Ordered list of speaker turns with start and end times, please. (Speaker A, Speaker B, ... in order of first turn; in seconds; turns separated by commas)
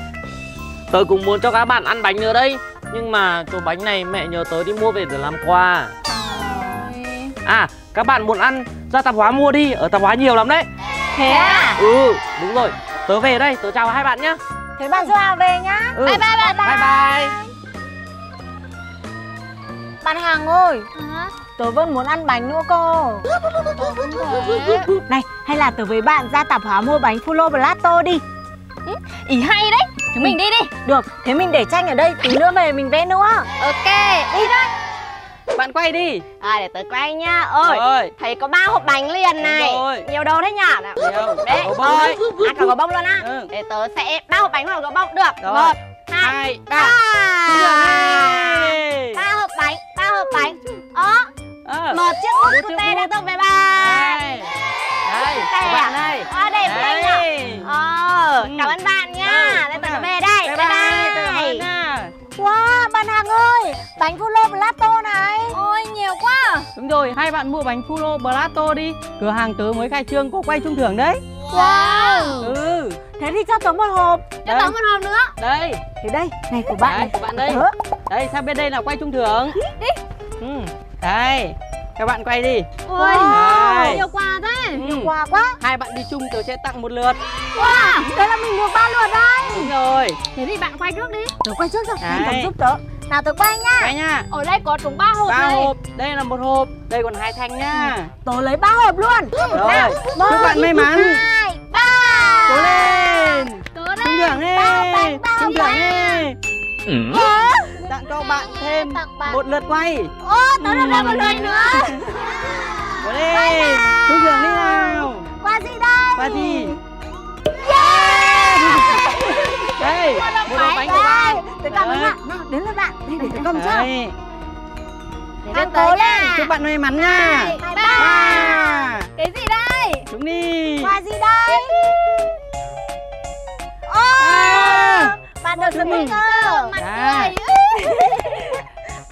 Speaker A: 0.9-5.9, Speaker B: 6.1-7.3, Speaker A: 7.5-10.7, Speaker C: 11.2-11.8, Speaker B: 11.3-11.8, Speaker A: 11.8-14.4, Speaker C: 14.8-17.1, Speaker A: 15.9-17.3, Speaker B: 16.0-17.3, Speaker C: 20.0-20.9, Speaker B: 20.9-21.4, Speaker C: 21.6-23.3, Speaker B: 23.8-24.9, Speaker C: 25.1-28.2, Speaker B: 28.9-30.7, Speaker C: 30.2-33.5, Speaker D: 33.6-34.4, Speaker E: 35.5-36.2, Speaker D: 36.4-51.3, Speaker E: 37.6-38.1, Speaker E: 39.4-40.1, Speaker E: 41.0-42.4, Speaker E: 43.2-43.5, Speaker E: 45.4-47.0, Speaker E: 47.5-49.2, Speaker E: 51.6-53.1, Speaker D: 51.9-54.2, Speaker E: 53.8-54.5, Speaker E: 55.0-57.7, Speaker D: 55.2-61.6, Speaker E: 58.4-62.1, Speaker C: 62.4-65.6, Speaker B: 65.5-66.7, Speaker E: 66.8-71.2, Speaker B: 71.5-72.5, Speaker C: 71.5-72.5, Speaker E: 72.4-73.0, Speaker C: 73.2-74.3, Speaker B: 74.4-75.3, Speaker E: 74.5-74.8, Speaker E: 75.4-75.8, Speaker C: 76.0-77.8, Speaker E: 76.8-79.6, Speaker B: 79.7-80.0, Speaker E: 80.4-82.7, Speaker B: 82.8-84.8, Speaker C: 83.0-84.0, Speaker E: 83.3-84.0, Speaker E: 84.8-87.2, Speaker C: 84.8-85.6, Speaker C: 87.5-89.7, Speaker B: 87.6-88.1, Speaker E: 89.5-90.2, Speaker B: 90.3-91.3, Speaker C: 91.4-93.9, Speaker E: 92.0-92.5, Speaker E: 93.8-94.3, Speaker B: 94.3-95.7, Speaker E: 95.3-98.1, Speaker C: 98.2-102.9, Speaker E: 99.5-101.2, Speaker E: 102.5-106.4, Speaker B: 103.1-104.4, Speaker C: 104.5-106.2, Speaker C: 107.1-107.9, Speaker B: 107.2-107.4, Speaker E: 107.9-111.9, Speaker C: 108.5-109.4, Speaker C: 110.4-116.8, Speaker B: 110.8-111.6, Speaker E: 113.0-115.3, Speaker E: 116.2-116.8, Speaker C: 117.7-119.7, Speaker E: 117.8-122.2, Speaker B: 119.8-121.2, Speaker C: 120.5-123.9, Speaker E: 123.5-124.1, Speaker B: 125.4-126.3, Speaker C: 125.5-128.9, Speaker E: 126.3-129.1, Speaker B: 127.3-128.6, Speaker B: 129.1-130.1, Speaker E: 130.1-130.9, Speaker C: 130.8-131.7, Speaker C: 133.9-137.8, Speaker E: 134.2-135.1, Speaker B: 134.5-134.8, Speaker E: 135.7-136.2, Speaker B: 135.8-136.2, Speaker E: 136.8-137.3, Speaker B: 137.7-138.6